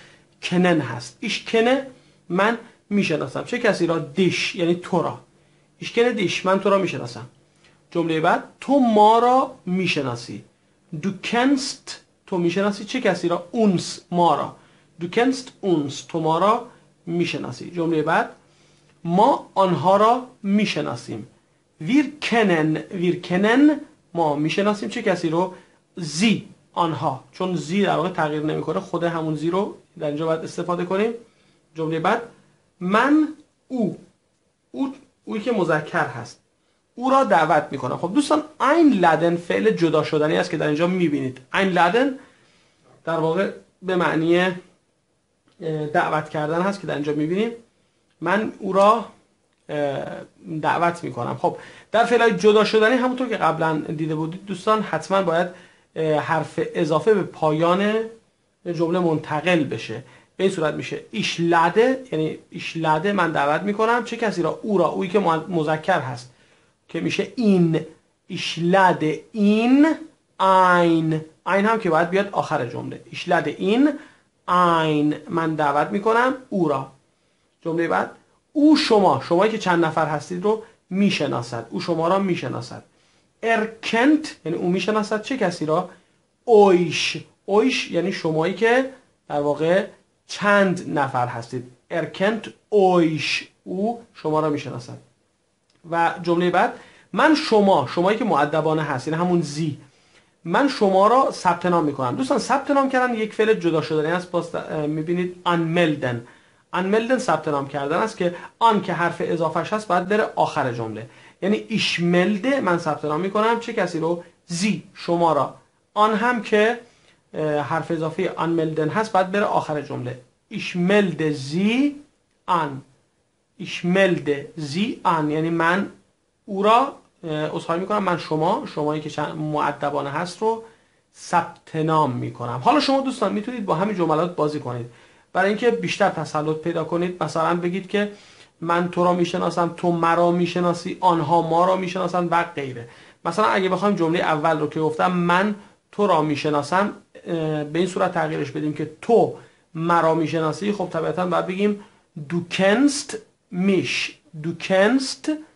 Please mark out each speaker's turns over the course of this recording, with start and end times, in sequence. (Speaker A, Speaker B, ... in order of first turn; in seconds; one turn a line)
Speaker A: 0.4-5.2
Speaker A: 5.8-7.3
Speaker A: 7.9-10.4
Speaker A: 11.0-18.3
Speaker A: 19.0-21.3
Speaker A: 21.8-31.2
Speaker A: 31.7-32.3
Speaker A: 32.8-34.0
Speaker A: 34.7-36.4
Speaker A: 37.0-42.2
Speaker A: 43.0-44.6
Speaker A: 45.6-47.5
Speaker A: 48.2-49.1
Speaker A: 49.7-58.1
Speaker A: 58.7-66.3
Speaker A: 66.9-73.9
Speaker A: 74.5-76.9
Speaker A: 77.6-82.8
Speaker A: 83.4-85.9
Speaker A: 86.5-95.0
Speaker A: 95.8-99.8
Speaker A: 100.4-116.8
Speaker A: 117.3-122.8
Speaker A: 123.6-125.9
Speaker A: 126.5-138.1
Speaker A: 138.6-155.3